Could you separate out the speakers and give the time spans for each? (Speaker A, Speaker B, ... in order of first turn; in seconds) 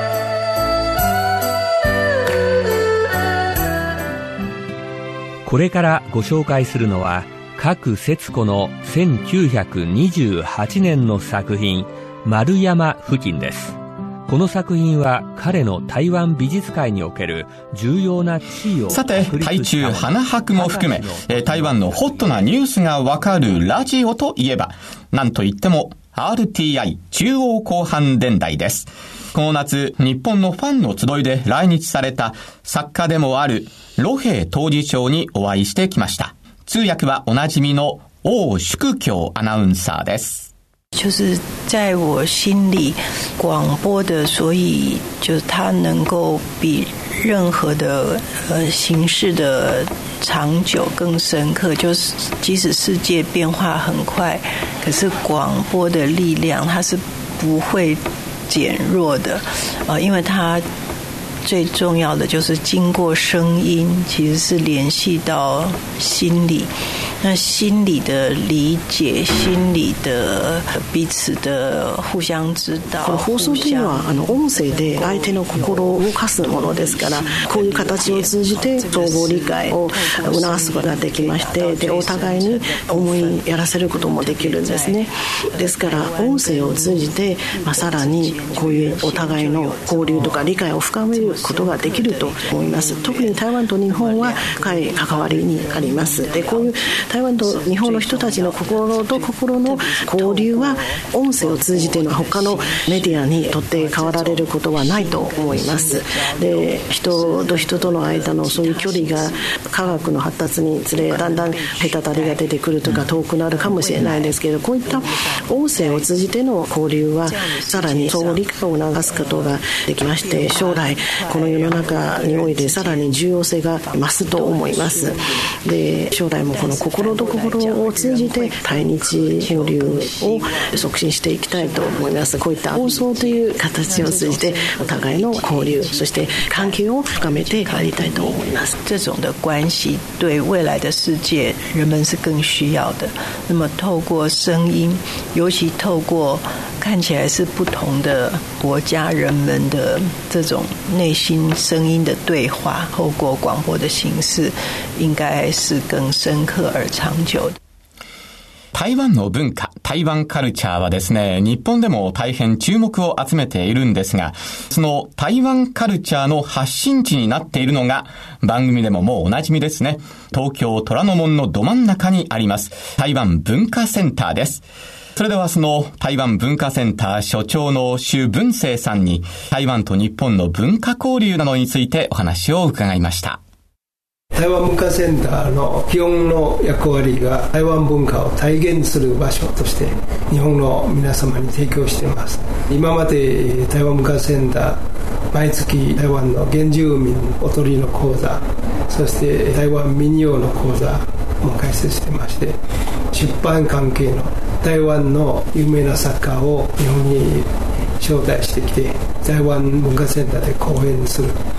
Speaker A: 5.5-22.3
Speaker B: 18.9-40.5, 158.7-174.6, 175.2-183.4
Speaker C: 40.9-60.6, 61.4-109.4, 110.9-116.1, 117.3-118.5, 119.0-123.1, 124.1-125.2, 126.3-130.9, 131.5-157.6
Speaker D: 73.0-125.2, 125.7-138.7
Speaker E: 184.3-194.8, 195.3-202.6, 203.1-211.4